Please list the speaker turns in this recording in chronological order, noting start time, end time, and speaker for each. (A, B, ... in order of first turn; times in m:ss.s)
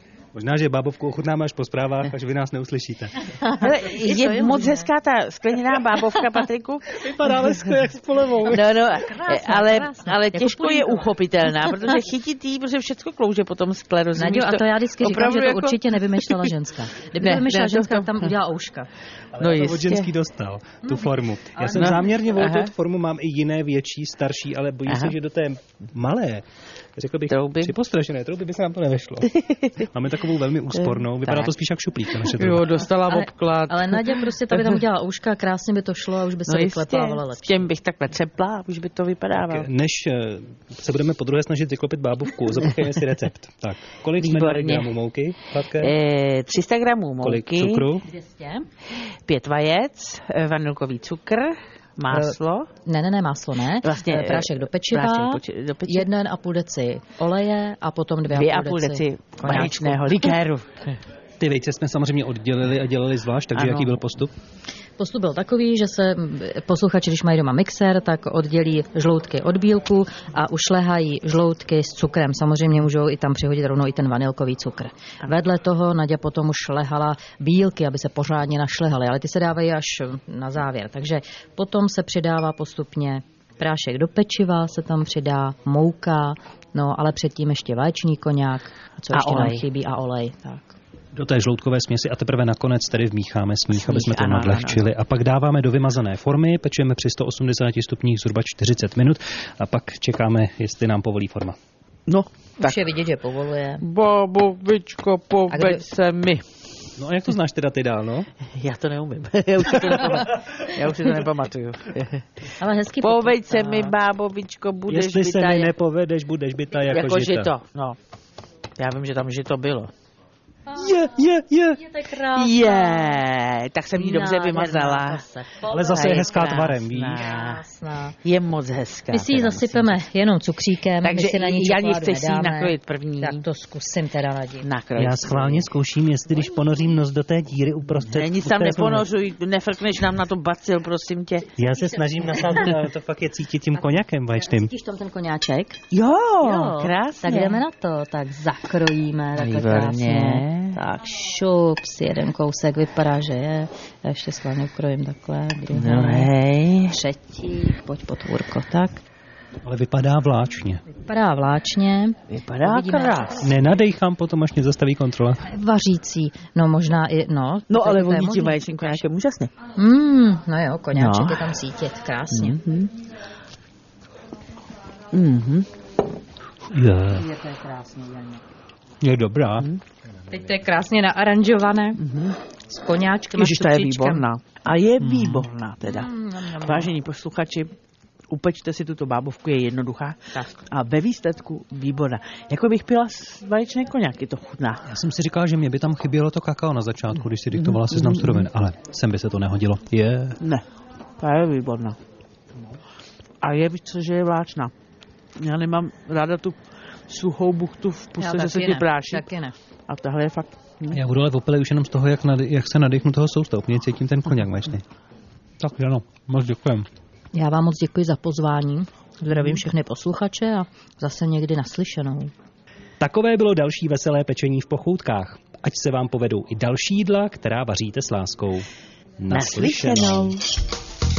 0:00.3-0:03.2 A
0:03.3-0:04.9 B
0:03.6-0:07.5 C
0:07.0-0:08.8 A
0:08.5-0:16.5 C
0:08.9-0:11.9 B
0:14.2-0:18.9 B
0:17.2-0:18.3 C
0:19.3-0:26.4 A
0:19.4-0:20.1 C
0:20.8-0:22.1 B
0:21.7-0:22.7 C
0:24.9-0:25.1 C
0:27.0-0:32.7 A
0:27.3-0:27.7 C
0:29.3-0:29.7 C
0:30.8-0:31.5 C
0:32.2-0:34.8 C
0:33.1-0:37.7 B
0:36.5-0:39.7 C
0:39.4-0:45.9 A
0:44.2-0:44.9 C
0:45.7-0:47.9 C
0:47.2-0:48.0 A
0:48.0-0:48.7 B
0:49.2-0:52.7 C
0:52.1-1:00.4 B
0:53.8-0:56.1 C
0:58.3-1:00.8 C
1:01.4-1:04.3 A
1:03.5-1:04.0 C
1:05.0-1:30.8 B
1:29.1-1:29.6 C
1:31.1-1:41.6 A
1:33.7-1:34.8 C
1:42.1-1:42.8 C
1:42.6-1:43.8 B
1:43.8-1:46.4 C
1:45.5-1:45.8 B
1:47.0-1:48.3 A
1:48.5-1:52.2 C
1:52.6-1:53.9 B
1:53.0-1:55.7 C
1:54.9-1:57.5 A
1:56.9-1:58.0 C
1:58.8-1:59.9 C
2:00.7-2:01.8 A
2:01.8-2:03.2 B
2:02.4-2:05.2 C
2:04.0-2:06.4 B
2:05.7-2:07.2 A
2:05.8-2:07.6 C
2:07.2-2:08.1 B
2:08.2-2:10.0 C
2:09.1-2:14.6 B
2:11.0-2:13.4 C
2:14.6-2:15.7 C
2:15.0-2:19.0 A
2:18.0-2:21.5 C
2:21.6-2:24.7 A
2:24.4-2:25.8 B
2:25.9-2:27.6 C
2:26.4-2:36.3 B
2:29.4-2:30.8 C
2:35.7-2:36.9 C
2:36.9-2:39.0 B
2:39.6-2:40.8 A
2:40.9-2:43.5 B
2:42.3-2:43.5 C
2:43.4-2:45.4 A
2:45.4-2:49.0 B
2:47.7-2:49.5 C
2:49.7-2:52.6 B
2:50.9-2:51.5 C
2:52.3-2:52.9 C
2:55.1-2:55.7 C
2:56.7-2:57.2 A
2:57.1-2:58.4 B
2:59.0-2:59.7 A
3:00.3-3:02.0 B
3:02.0-3:02.4 C
3:02.7-3:04.2 B
3:03.4-3:06.1 C
3:05.0-3:05.5 A
3:05.8-3:06.9 B
3:06.6-3:07.7 C
3:08.3-3:14.8 C
3:14.9-3:20.4 A
3:17.6-3:18.5 C
3:21.2-3:22.0 C
3:23.4-3:24.7 C
3:25.4-3:26.6 C
3:27.1-3:29.2 C
3:28.2-3:29.5 B
3:29.9-3:31.0 C
3:30.9-3:34.8 A
3:35.6-3:36.9 A
3:37.3-3:42.3 B
3:43.0-3:48.7 A
3:49.2-3:50.3 A
3:49.3-3:50.4 C